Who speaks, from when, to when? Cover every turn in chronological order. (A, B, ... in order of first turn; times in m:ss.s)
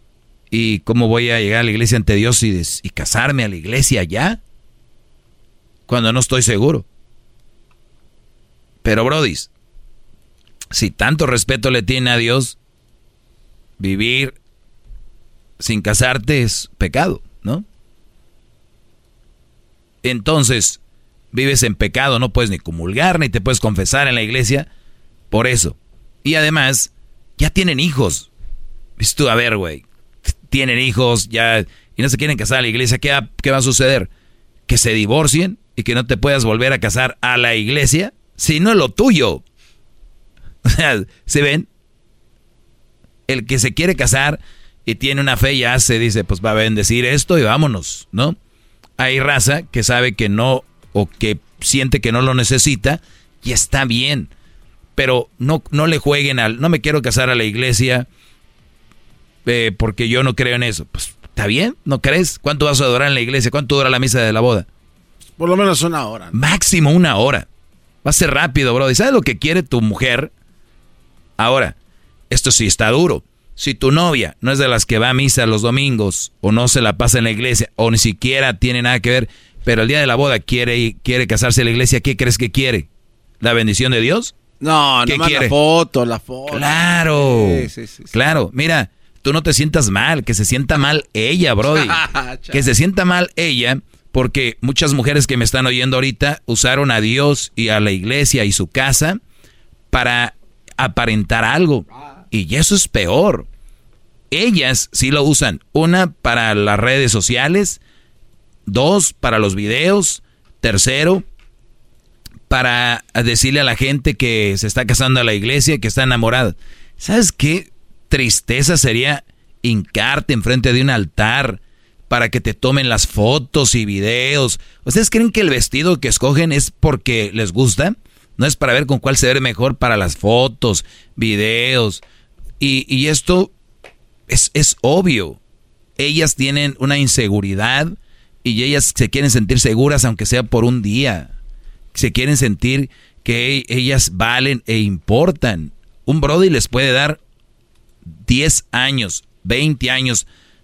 0:00.5-0:04.4 A
0:05.9-0:06.8 A
0:08.8-0:09.5 A
0:10.7-0:12.6 A
0:13.8-0:14.4 A
0:15.6-0:17.6 A
0:20.0-0:20.8 A
0:21.3-0:24.7 A
0:25.3-0:28.3 A
0:29.0-0:29.8 A
0:30.5-0:34.1 A
0:34.7-0:39.4 A
0:40.6-0:41.7 A
0:43.3-0:48.4 A
0:49.0-0:54.3 A
0:55.0-0:58.1 A
0:59.5-1:04.7 A
1:05.4-1:06.4 B
1:06.3-1:07.5 A
1:08.0-1:10.3 A
1:11.4-1:11.8 A
1:12.3-1:22.9 A
1:23.4-1:24.4 A
1:24.6-1:28.1 B
1:25.1-1:25.6 A
1:26.5-1:32.0 A
1:31.7-1:32.7 B
1:32.5-1:39.2 A
1:39.9-1:43.5 A
1:44.3-1:47.8 A
1:48.7-1:51.2 A
1:52.5-2:12.0 A
2:12.6-2:13.5 A
2:14.3-2:15.4 A
2:16.0-2:21.3 A
2:21.9-2:27.2 A
2:28.2-2:30.3 A